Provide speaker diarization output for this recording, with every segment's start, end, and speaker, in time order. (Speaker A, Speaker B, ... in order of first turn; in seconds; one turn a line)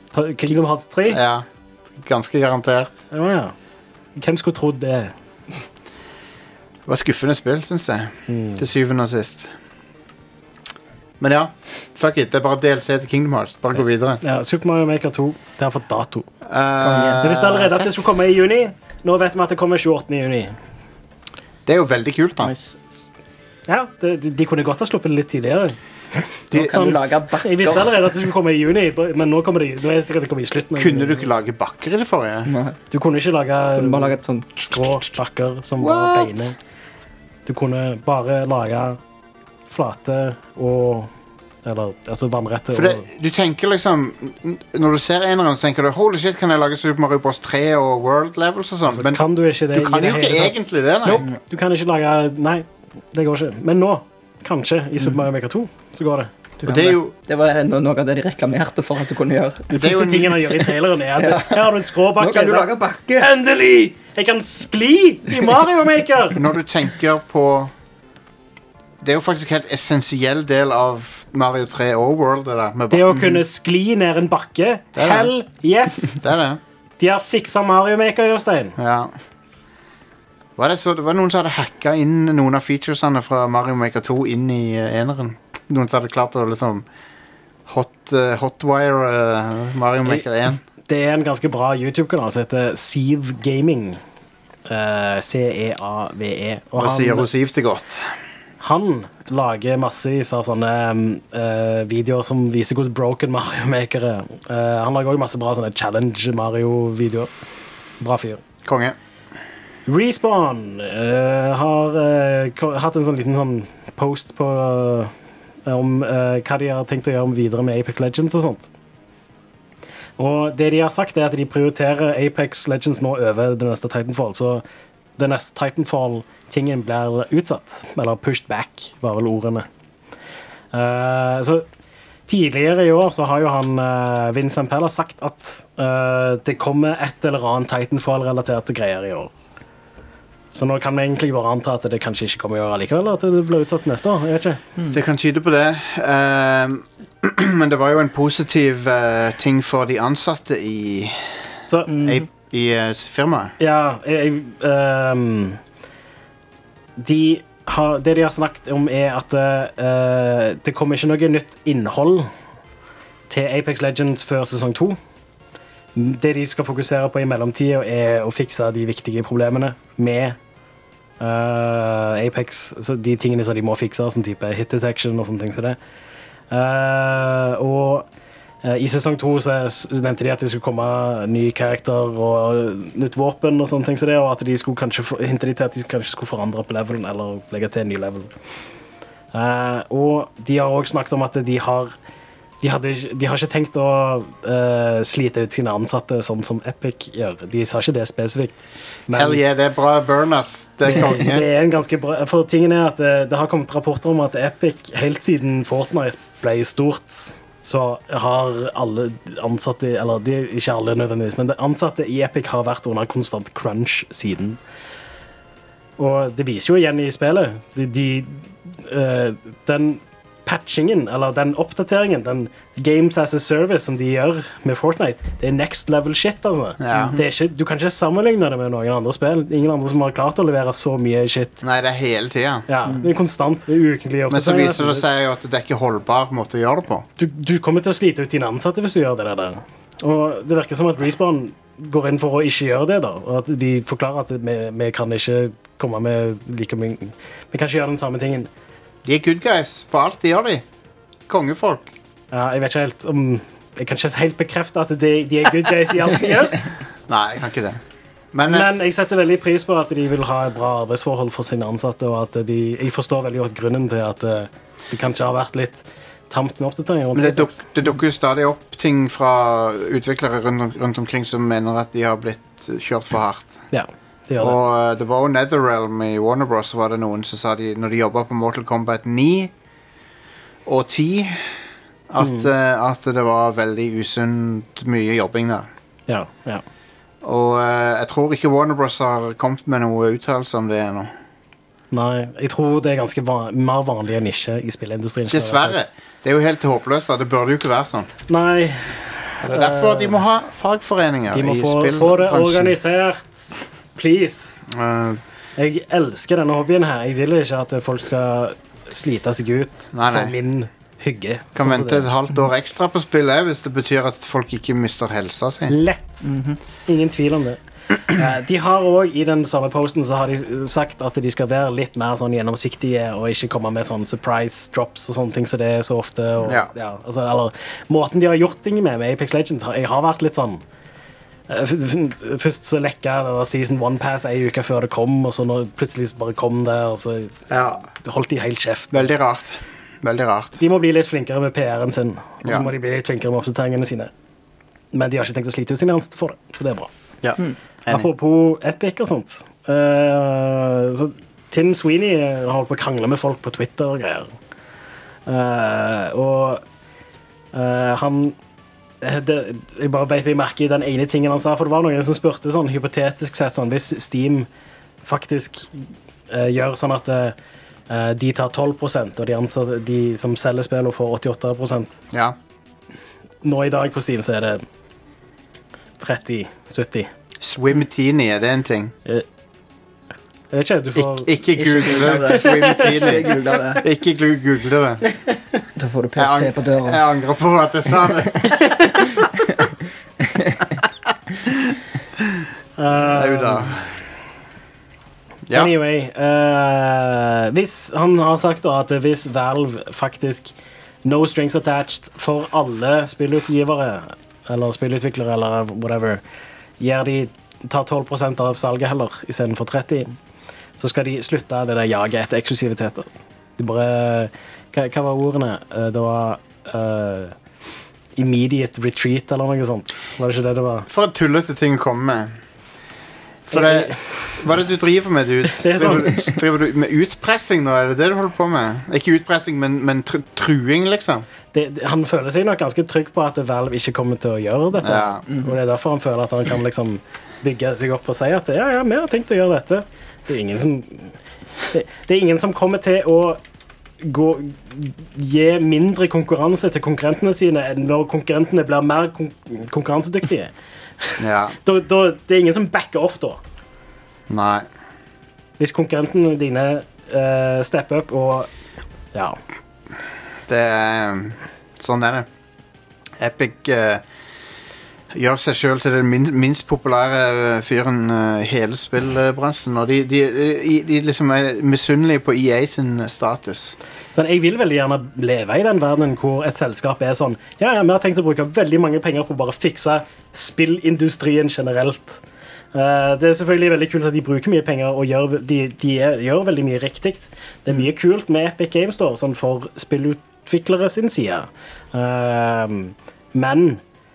Speaker A: 0.1-1.2
Speaker B: 1.1-1.4
Speaker B: 2.0-3.0
Speaker A: 3.1-3.5
Speaker A: 4.2-5.1
Speaker B: 6.9-9.5
Speaker A: 8.3-8.6
Speaker B: 11.2-14.2
Speaker A: 14.2-16.3
Speaker B: 16.4-17.9
Speaker C: 16.8-17.3
Speaker A: 17.2-20.6
Speaker B: 21.7-22.5
Speaker C: 22.4-22.8
Speaker A: 23.7-25.8
Speaker C: 26.5-28.1
Speaker A: 26.5-31.3
Speaker B: 30.8-32.5
Speaker C: 32.5-32.8
Speaker A: 32.9-36.5
Speaker C: 33.8-34.7
Speaker B: 35.8-36.5
Speaker A: 37.5-39.0
Speaker A: 39.7-41.1
Speaker A: 41.6-43.1
Speaker B: 42.7-51.2
Speaker A: 48.9-56.3
Speaker B: 56.6-57.1
Speaker C: 56.6-59.7
Speaker A: 59.7-66.4
Speaker B: 59.7-60.4
Speaker C: 61.2-63.3
Speaker B: 66.3-67.7
Speaker B: 69.0-73.2
Speaker A: 72.9-76.2
Speaker B: 75.0-75.3
Speaker B: 76.1-76.6
Speaker A: 77.0-78.8
Speaker B: 78.8-79.1
Speaker B: 80.6-86.9
Speaker B: 87.7-90.6
Speaker A: 90.9-94.0
Speaker A: 94.7-97.3
Speaker B: 96.8-98.1
Speaker A: 98.6-107.3
Speaker A: 108.0-108.4
Speaker B: 108.7-109.0
Speaker A: 109.9-115.1
Speaker A: 115.7-118.7
Speaker A: 120.2-124.6
Speaker A: 125.2-129.7
Speaker A: 130.7-131.7
Speaker A: 132.3-139.3
Speaker A: 140.5-144.6
Speaker B: 144.9-151.2
Speaker C: 151.9-152.2
Speaker B: 152.0-153.5
Speaker A: 153.6-155.6
Speaker A: 157.0-162.3
Speaker A: 163.3-165.0
Speaker A: 165.9-170.4
Speaker A: 171.2-175.8
Speaker A: 176.5-178.1
Speaker A: 178.6-188.3
Speaker A: 189.3-191.9
Speaker A: 192.6-199.4
Speaker B: 199.1-201.5
Speaker A: 200.9-214.6
Speaker A: 216.0-231.6
Speaker B: 226.8-227.2
Speaker B: 231.6-232.7
Speaker A: 232.7-235.0
Speaker B: 234.3-237.1
Speaker A: 237.2-248.5
Speaker B: 249.1-250.7
Speaker B: 251.3-251.9
Speaker A: 252.3-256.6
Speaker B: 257.1-257.8
Speaker B: 258.3-258.7
Speaker A: 258.5-267.6
Speaker B: 267.1-273.6
Speaker A: 273.7-274.6
Speaker B: 274.4-279.5
Speaker B: 280.7-281.5
Speaker B: 282.1-285.7
Speaker A: 282.2-282.5
Speaker A: 286.1-286.6
Speaker B: 287.2-291.1
Speaker A: 291.9-295.8
Speaker B: 295.3-298.1
Speaker A: 298.3-300.2
Speaker B: 299.4-302.8
Speaker A: 301.3-304.6
Speaker B: 304.7-305.2
Speaker A: 305.6-312.1
Speaker B: 309.9-310.4
Speaker B: 311.6-315.8
Speaker A: 315.7-316.3
Speaker C: 316.2-316.6
Speaker A: 316.9-330.6
Speaker B: 326.4-326.7
Speaker A: 331.5-337.3
Speaker B: 337.5-337.9
Speaker A: 338.0-339.1
Speaker B: 338.9-340.6
Speaker A: 340.6-344.1
Speaker A: 344.9-346.9
Speaker B: 347.2-348.1
Speaker A: 347.9-354.3
Speaker A: 355.3-356.6
Speaker A: 357.5-358.4
Speaker A: 359.0-364.5
Speaker A: 365.0-365.7
Speaker A: 366.3-367.4
Speaker A: 367.9-372.0
Speaker A: 373.4-374.6
Speaker A: 376.0-377.1
Speaker B: 377.4-378.9
Speaker A: 380.5-381.3
Speaker B: 381.0-385.0
Speaker C: 381.6-383.8
Speaker A: 382.3-383.4
Speaker C: 385.8-387.0
Speaker B: 386.2-389.1
Speaker C: 390.4-390.6
Speaker A: 392.8-393.7
Speaker B: 393.1-393.9
Speaker B: 395.5-395.7
Speaker A: 395.5-400.5
Speaker A: 401.1-406.2
Speaker A: 406.8-410.1
Speaker A: 410.8-417.4
Speaker A: 418.2-420.9
Speaker B: 420.9-422.4
Speaker B: 423.5-431.3
Speaker A: 423.5-424.4
Speaker A: 425.5-426.3
Speaker A: 431.5-441.1
Speaker B: 434.8-435.2
Speaker A: 441.7-443.4
Speaker A: 444.0-453.4
Speaker B: 451.2-451.6
Speaker B: 454.3-454.7
Speaker A: 455.6-458.5
Speaker A: 459.1-459.4
Speaker B: 460.5-462.3
Speaker B: 463.2-464.0
Speaker B: 465.1-473.8
Speaker A: 474.1-482.2
Speaker A: 482.7-493.8